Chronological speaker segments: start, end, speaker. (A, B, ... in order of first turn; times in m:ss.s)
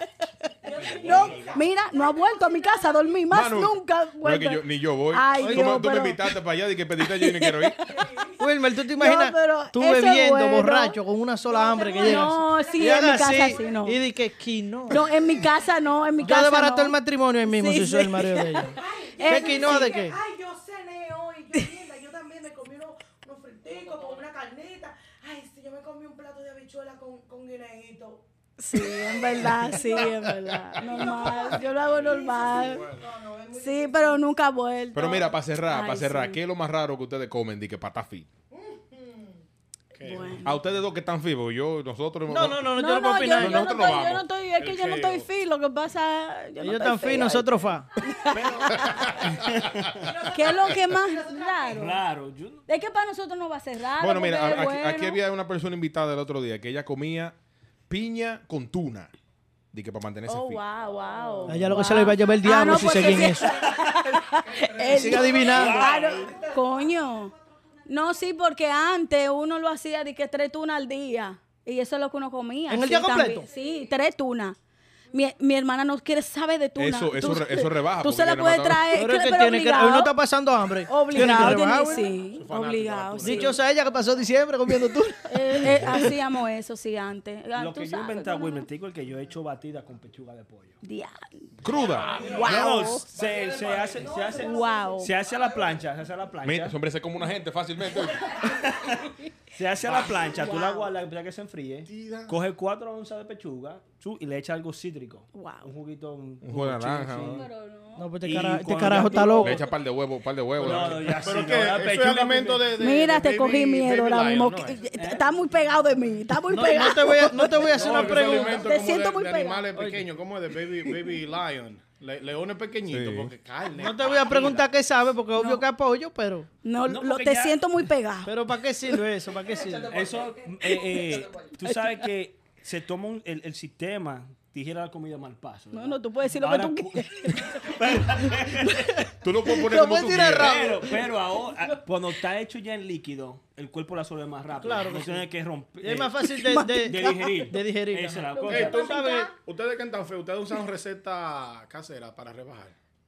0:00.4-0:06.3 A
0:00.6-0:03.3 B
0:01.0-0:01.6 C
0:03.3-0:07.8 D
0:05.4-0:05.8 E
0:07.0-0:08.1 A
0:07.8-0:08.4 B
0:08.4-0:15.1 E
0:09.0-0:11.0 A
0:11.5-0:13.9 B
0:12.0-0:14.0 A
0:14.9-0:20.0 A
0:15.1-0:16.3 B
0:16.2-0:20.2 E
0:18.7-0:28.2 B
0:28.6-0:32.8 A
0:28.8-0:30.1 B
0:30.0-0:30.5 C
0:30.8-0:34.2 B
0:31.7-0:33.1 C
0:33.6-0:36.4 A
0:34.9-0:38.3 D
0:38.5-0:39.4 B
0:40.0-0:40.6 C
0:40.0-0:40.6 A
0:40.4-0:44.2 D
0:42.3-0:43.6 E
0:42.7-0:49.2 A
0:44.6-0:45.3 C
0:46.6-0:47.8 E
0:48.2-0:49.4 B
0:48.3-0:50.1 F
0:48.8-0:50.1 C
0:50.0-0:52.0 B
0:50.3-0:52.0 A
0:51.7-0:52.6 F
0:52.7-0:55.2 A
0:54.0-0:57.4 D
0:57.9-0:59.1 D
0:59.7-1:00.6 D
1:00.3-1:07.3 A
1:01.4-1:02.0 F
1:01.5-1:03.6 E
1:04.6-1:07.3 B
1:04.8-1:05.8 E
1:05.4-1:06.3 F
1:07.9-1:14.6 A
1:12.7-1:13.5 E
1:13.5-1:13.8 B
1:15.1-1:20.1 A
1:16.8-1:18.9 D
1:18.9-1:22.1 E
1:20.9-1:23.6 A
1:22.3-1:23.6 C
1:23.2-1:26.1 E
1:25.3-1:28.7 A
1:27.6-1:30.8 F
1:30.8-1:31.5 A
1:31.6-1:32.2 D
1:31.7-1:32.6 B
1:32.0-1:32.7 C
1:32.1-1:33.1 A
1:32.4-1:36.8 F
1:33.1-1:35.8 B
1:34.2-1:35.1 A
1:36.4-1:38.3 D
1:38.4-1:47.5 F
1:40.2-1:40.9 A
1:41.9-1:42.4 C
1:45.3-1:45.7 A
1:46.4-1:47.4 D
1:47.2-1:48.1 A
1:48.0-1:49.6 E
1:48.2-1:49.6 F
1:49.4-1:51.2 D
1:50.6-1:52.7 F
1:50.8-1:54.9 C
1:52.8-1:57.8 A
1:55.0-1:55.4 F
1:56.5-1:58.7 E
1:57.6-2:04.7 C
1:57.7-1:58.4 F
1:58.4-1:59.7 A
1:59.8-2:00.0 E
2:02.9-2:03.3 D
2:03.8-2:06.5 E
2:05.4-2:05.6 A
2:06.6-2:08.4 A
2:06.9-2:07.6 F
2:08.3-2:10.0 E
2:09.9-2:18.9 F
2:11.6-2:12.0 A
2:15.7-2:18.9 A
2:19.2-2:20.6 D
2:19.6-2:21.0 E
2:20.3-2:28.8 F
2:24.6-2:25.3 E
2:25.8-2:29.3 E
2:26.4-2:27.3 A
2:28.3-2:29.3 A
2:28.5-2:32.8 C